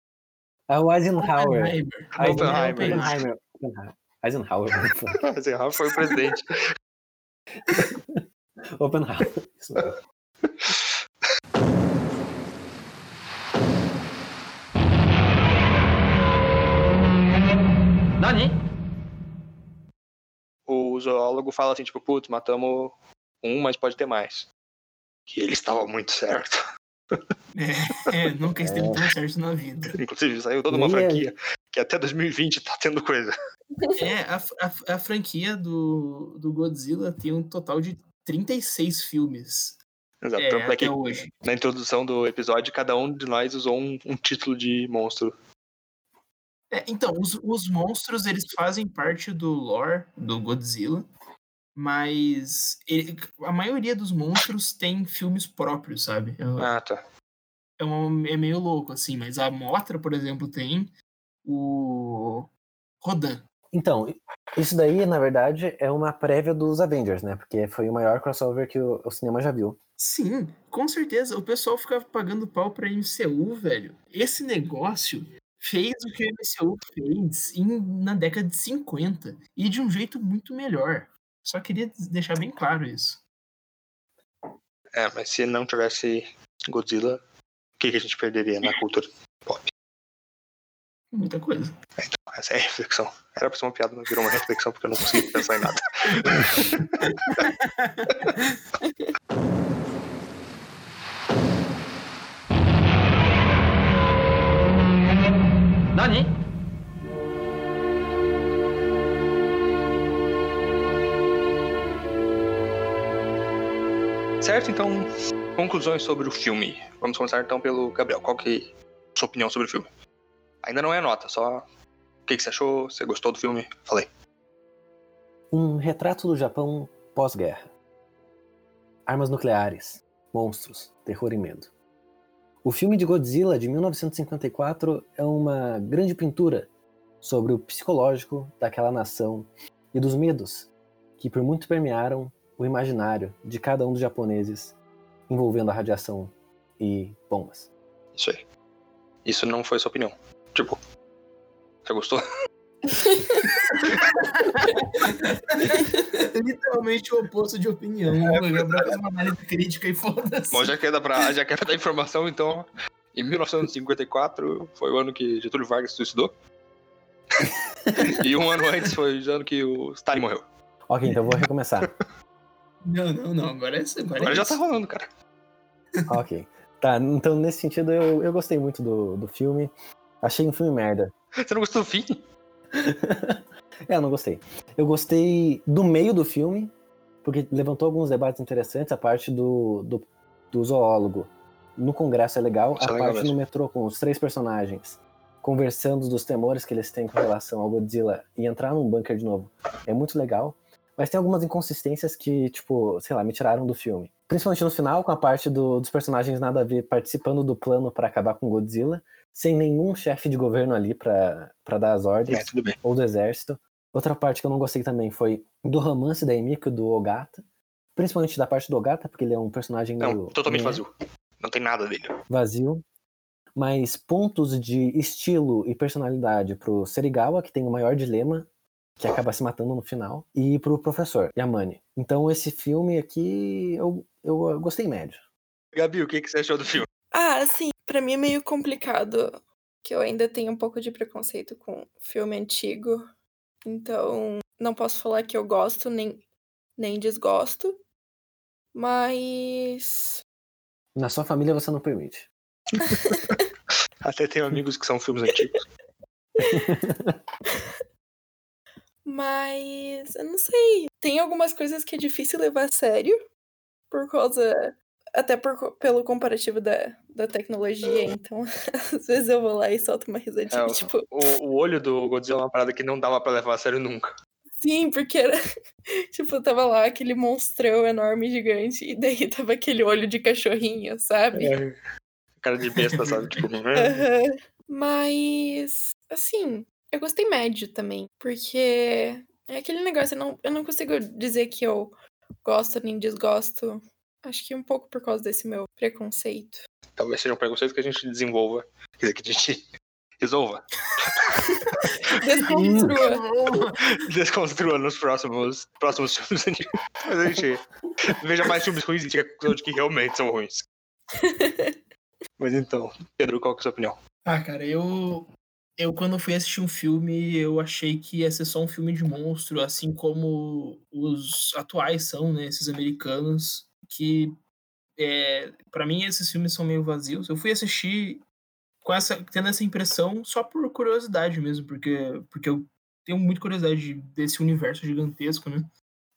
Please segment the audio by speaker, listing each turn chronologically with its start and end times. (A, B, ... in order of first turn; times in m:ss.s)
0:00.7-0:05.2 A
0:01.2-0:03.2 B
0:02.2-0:03.1 C
0:05.3-0:06.6 C
0:07.7-0:08.2 A
0:08.8-0:09.9 A
0:10.4-0:10.9 C
0:20.7-0:24.5 C
0:25.3-0:26.6 C
0:27.5-0:30.0 B
0:28.6-0:29.0 A
0:30.0-0:33.3 C
0:30.7-0:31.2 A
0:34.0-0:39.8 B
0:40.2-0:45.3 C
0:40.4-0:41.3 B
0:46.7-0:51.1 B
0:51.8-0:56.7 B
0:56.6-0:57.0 C
0:57.8-1:00.9 B
1:01.4-1:02.5 B
1:03.0-1:03.4 B
1:03.7-1:09.8 A
1:10.0-1:23.2 B
1:24.9-1:27.2 C
1:27.8-1:29.7 C
1:31.1-1:31.7 B
1:32.0-1:37.4 C
1:37.3-1:38.6 B
1:54.4-1:59.9 C
2:00.6-2:01.6 C
2:02.2-2:04.1 C
2:05.5-2:07.7 A
2:09.0-2:11.7 A
2:12.6-2:16.7 A
2:17.2-2:24.8 A
2:25.3-2:27.7 A
2:28.2-2:28.4 C
2:29.2-2:30.8 C
2:31.8-2:32.2 C
2:33.9-2:40.7 B
2:38.3-2:38.9 C
2:40.5-2:46.3 C
2:47.4-2:48.1 A
2:48.0-2:50.4 C
2:50.9-2:51.9 A
2:52.8-2:54.6 B
2:54.2-2:55.1 C
2:56.1-3:01.1 A
3:01.4-3:02.2 C
3:02.7-3:06.7 A
3:07.2-3:37.4 A
3:12.8-3:13.4 C
3:32.3-3:32.8 C
3:38.0-3:40.8 A
3:40.0-3:42.2 C
3:42.3-3:42.8 A
3:43.6-3:48.5 A
3:49.0-3:55.2 A
3:55.7-3:56.9 C
3:57.1-4:03.0 D
4:03.6-4:06.2 D
4:06.8-4:07.8 D
4:08.7-4:10.2 D
4:10.9-4:12.3 A
4:12.8-4:13.4 D
4:14.0-4:15.6 C
4:16.5-4:17.2 A
4:19.0-4:23.2 D
4:23.9-4:31.1 D
4:30.5-4:34.1 C
4:34.6-4:35.4 D
4:36.1-4:41.5 D
4:41.4-4:41.7 C
4:42.4-4:44.0 C
4:42.8-4:43.4 B
4:43.8-4:56.6 D
4:57.0-4:59.6 C
5:00.2-5:01.2 C
5:02.1-5:03.2 D
5:02.2-5:04.0 B
5:02.6-5:02.9 A
5:03.9-5:10.7 C
5:11.2-5:11.7 D
5:12.4-5:14.0 C
5:14.2-5:24.3 B
5:25.0-5:28.2 B
5:28.8-5:35.7 B